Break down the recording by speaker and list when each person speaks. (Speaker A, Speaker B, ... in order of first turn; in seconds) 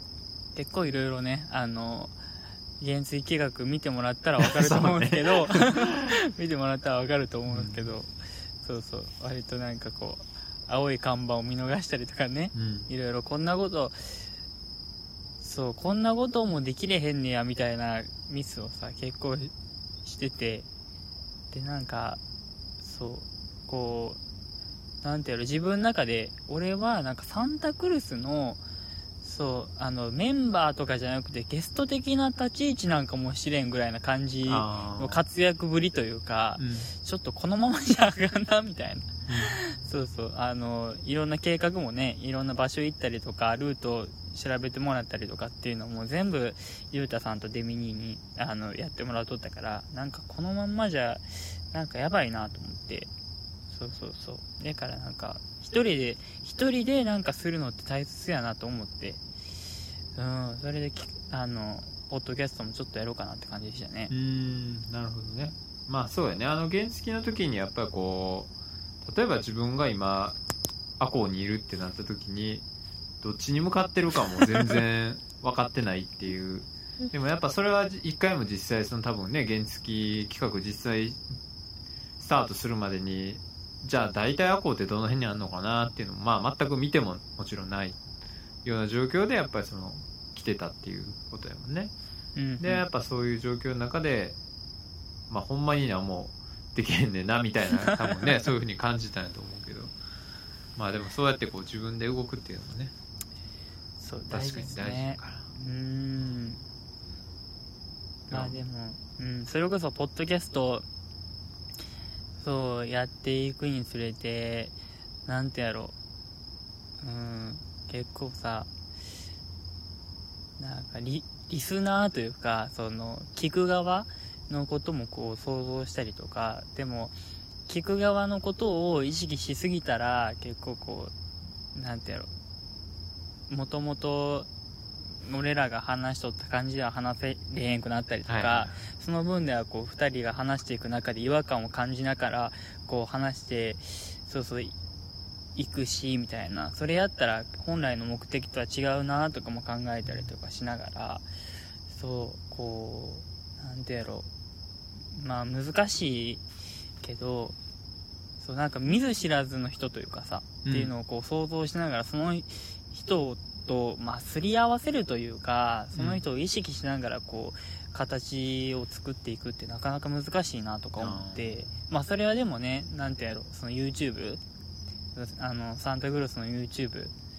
Speaker A: 0.6-2.1, 2.8-8.1, 8.6-14.2, 15.4-19.5, 20.0-20.7, 21.5-22.2, 22.8-24.2, 25.0-28.6, 29.2-53.1, 53.7-59.2, 60.1-64.1, 92.4-92.9, 97.8-98.2, 104.0-106.6, 108.3-110.9, 112.4-114.8, 115.3-116.0, 117.0-118.7, 120.6-131.1, 131.7-132.3, 133.5-134.5, 135.2-144.8, 145.6-151.2, 151.9-154.3, 155.1-156.4, 157.0-157.6, 158.4-174.4, 175.2-177.1
Speaker B: 4.4-6.1, 7.5-7.8, 12.5-12.9, 34.5-35.2, 36.6-36.9, 39.3-39.6, 64.1-68.5, 69.0-70.4, 71.0-72.7, 73.2-81.2, 82.2-88.0, 88.6-91.9, 92.6-94.4, 95.3-99.9, 100.8-102.9, 104.3-105.5, 108.3-108.6, 138.3-138.8, 150.1-150.3, 160.7-160.9, 165.9-166.2, 171.0-171.5